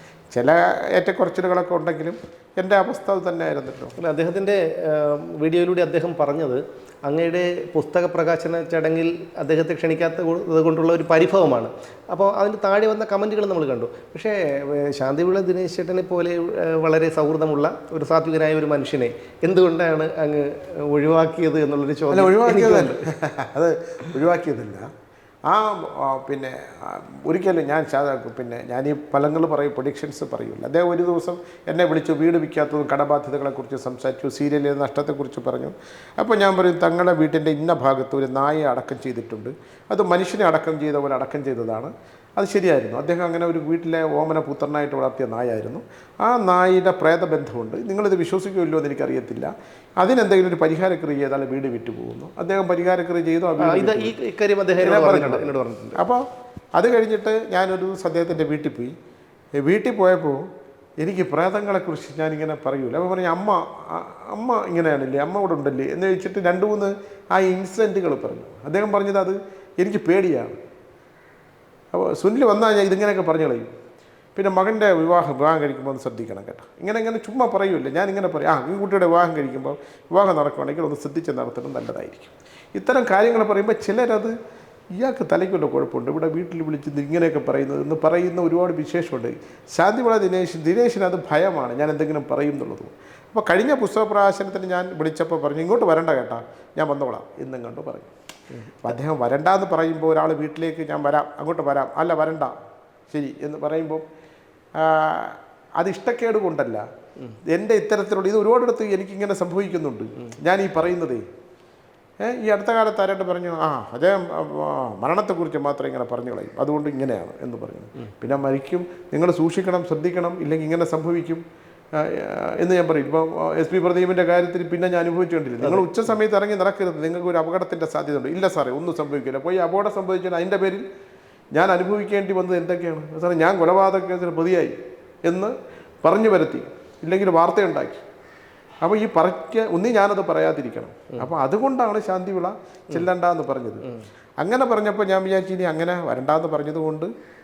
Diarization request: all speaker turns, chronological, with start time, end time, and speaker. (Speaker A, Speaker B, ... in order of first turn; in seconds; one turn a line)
Speaker A: 0.3-3.9
Speaker B: 4.0-23.1
Speaker A: 22.1-24.9
Speaker A: 25.5-54.1
Speaker B: 53.6-56.0
Speaker A: 54.8-56.2
Speaker A: 56.7-58.9
Speaker A: 59.6-60.4
Speaker A: 61.0-70.5
Speaker A: 71.9-73.7
Speaker A: 74.3-84.3
Speaker A: 84.9-98.1
Speaker A: 98.8-102.5
Speaker A: 103.1-104.0
Speaker A: 104.8-106.8
Speaker A: 107.5-111.2
Speaker A: 112.2-121.4
Speaker A: 121.9-130.8
Speaker B: 125.6-125.9
Speaker A: 131.5-138.0
Speaker A: 138.8-143.8
Speaker A: 144.4-147.1